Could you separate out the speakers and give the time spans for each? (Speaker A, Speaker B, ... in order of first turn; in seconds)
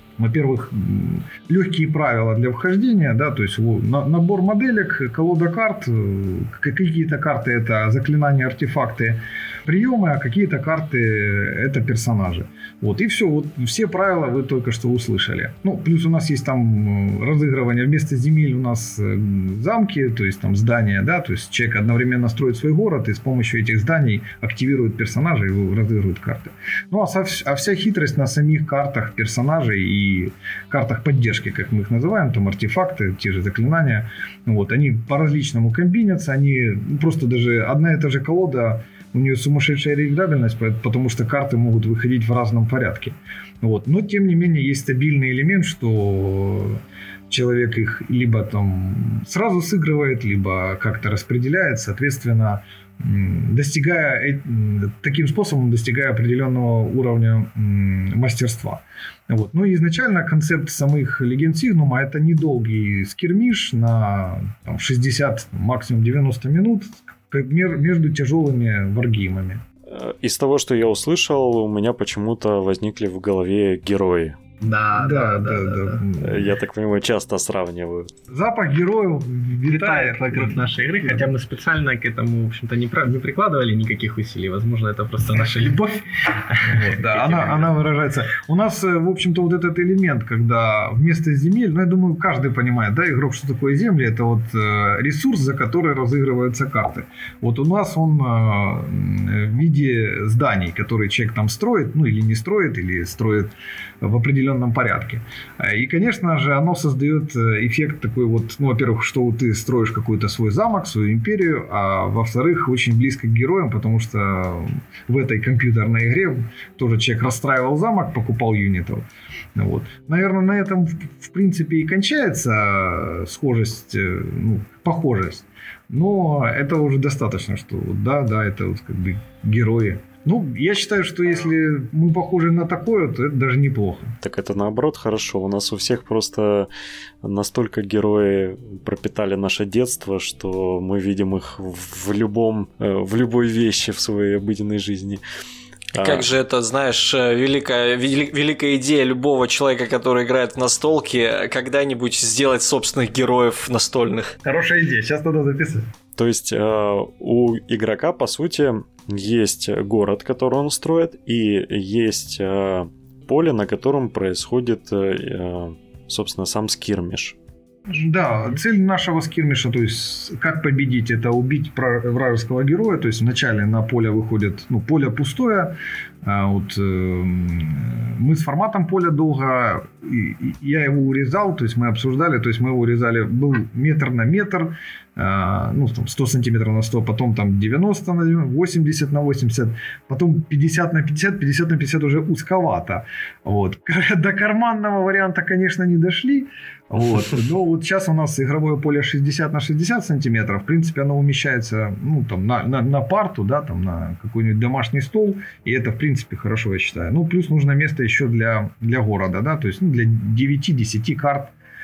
Speaker A: 0.2-69.6, 75.0-76.5, 78.3-81.2, 86.6-134.2, 154.4-155.9, 167.9-211.5
Speaker B: 69.9-74.4, 76.2-78.1, 134.2-136.7, 137.2-145.2, 145.9-146.3, 156.2-167.3
Speaker C: 74.6-76.0, 79.7-87.7
Speaker D: 145.9-154.3